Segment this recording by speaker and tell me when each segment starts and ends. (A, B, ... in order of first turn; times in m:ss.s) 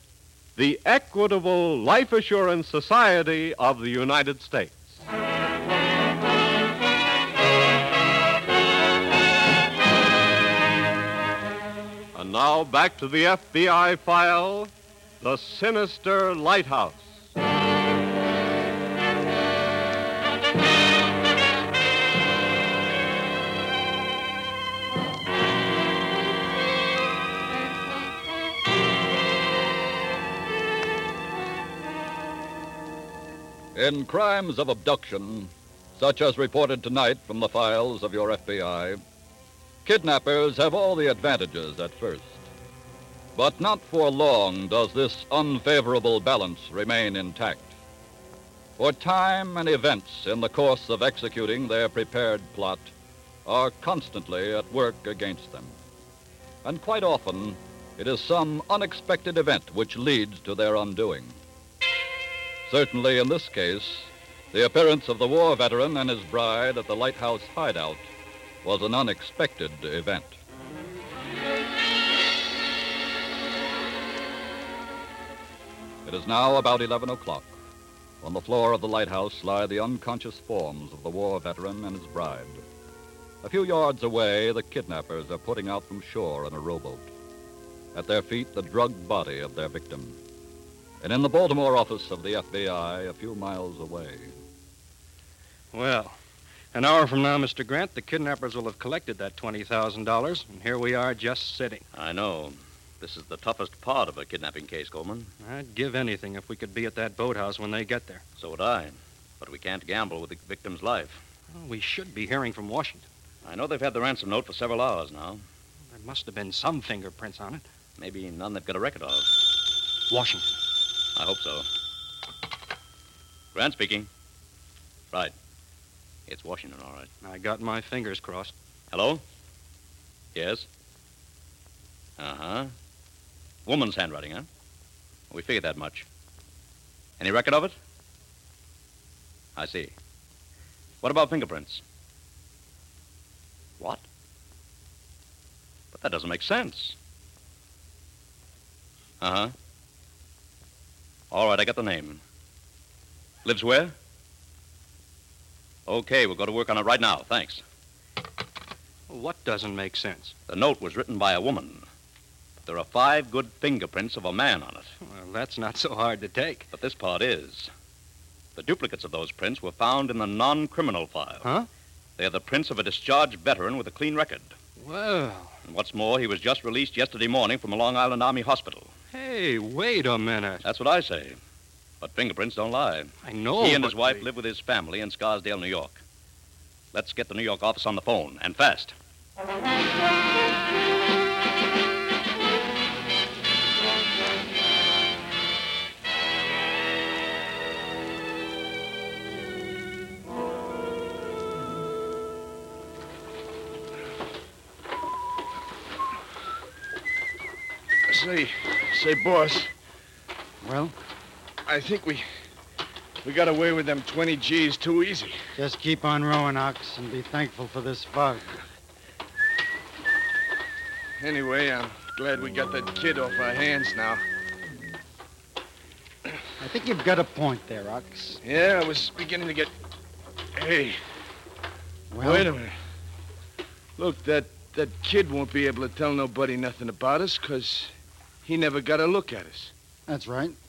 0:00.6-0:05.0 A
0:12.1-0:17.2 A
0:33.7-0:39.0 B
0:39.8-0:42.4 B
0:43.3-0:47.7 B
0:48.8-0:52.9 B
0:53.4-0:55.7 B
0:56.6-1:01.4 B
1:02.6-1:08.1 B
1:08.6-1:10.4 B
1:16.0-1:17.6 B
1:18.2-1:22.6 B
1:23.4-1:27.1 B
1:27.9-1:30.2 B
1:31.0-1:34.3 B
1:35.7-1:36.2 C
1:36.7-1:41.8 C
1:41.9-1:45.3 D
1:45.4-1:48.2 C
1:48.4-1:51.2 D
1:51.5-1:53.0 C
1:53.4-1:55.4 D
1:55.9-1:57.6 C
1:58.0-1:59.3 D
2:00.1-2:00.5 C
2:01.2-2:01.7 D
2:03.5-2:04.1 D
2:06.3-2:07.1 D
2:07.2-2:08.5 C
2:08.9-2:09.2 D
2:10.3-2:10.7 D
2:12.2-2:12.7 D
2:13.6-2:14.5 D
2:15.3-2:16.0 D
2:17.2-2:17.8 D
2:19.6-2:19.9 D
2:21.0-2:21.8 D
2:25.9-2:27.0 D
2:29.2-2:29.5 D
2:31.3-2:32.2 D
2:33.4-2:33.9 D
2:35.8-2:37.6 D
2:39.1-2:40.3 C
2:40.5-2:41.8 D
2:42.6-2:44.9 D
2:45.0-2:46.7 C
2:46.7-2:47.7 D
2:48.6-2:51.4 D
2:51.4-2:51.7 C
2:52.2-2:54.5 D
2:54.8-2:55.6 C
2:55.6-2:58.9 D
2:59.1-3:00.6 C
3:00.6-3:01.4 D
3:02.0-3:06.0 D
3:03.2-3:04.2 C
3:06.9-3:08.9 D
3:28.1-3:29.7 E
3:30.6-3:30.9 F
3:31.6-3:32.2 E
3:33.2-3:35.4 E
3:35.6-3:38.5 F
3:41.2-3:44.2 E
3:46.6-3:48.4 F
3:48.4-3:49.7 E
3:50.5-3:51.0 E
3:52.1-3:52.5 F
3:52.2-3:52.8 E
3:54.0-3:57.9 E
3:58.4-3:59.7 E
4:00.1-4:00.6 F